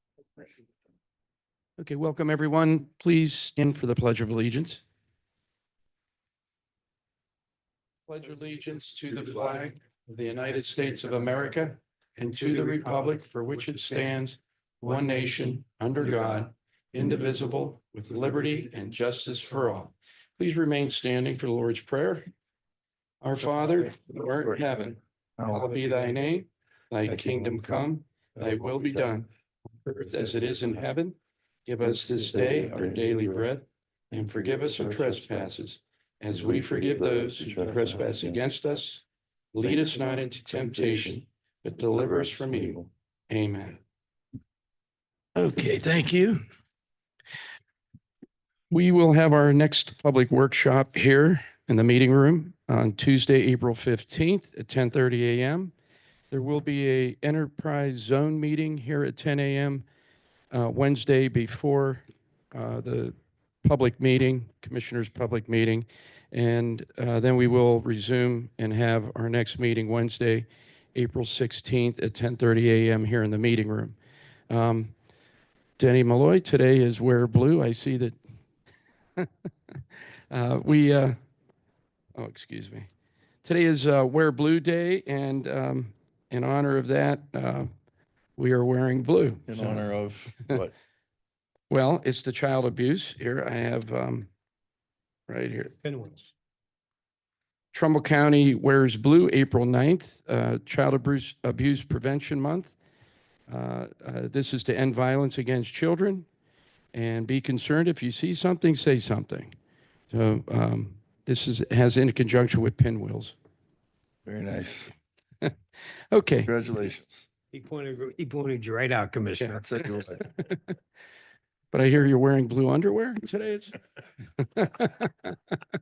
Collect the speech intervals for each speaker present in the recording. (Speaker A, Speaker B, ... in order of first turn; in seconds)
Speaker A: 1.8-4.8, 8.1-22.3, 23.2-29.3, 29.8-39.0, 39.5-43.8, 45.4-46.4, 48.7-55.7, 56.3-59.8, 60.5-73.9, 74.5-74.9, 75.8-78.2, 80.3-81.2, 82.2-82.9, 83.4-87.7, 88.4-89.9, 91.7-94.3, 95.3-95.7, 97.7-102.7, 103.5-106.2, 106.9-109.5, 110.1-113.3, 116.1-116.5, 121.7-123.7, 124.4-125.4
Speaker B: 25.4-25.6, 32.0-33.1, 34.8-35.3, 36.5-38.4, 42.3-42.8, 89.5-90.7, 114.2-114.9, 116.5-117.3, 119.6-120.2
Speaker C: 95.8-96.3, 117.5-119.7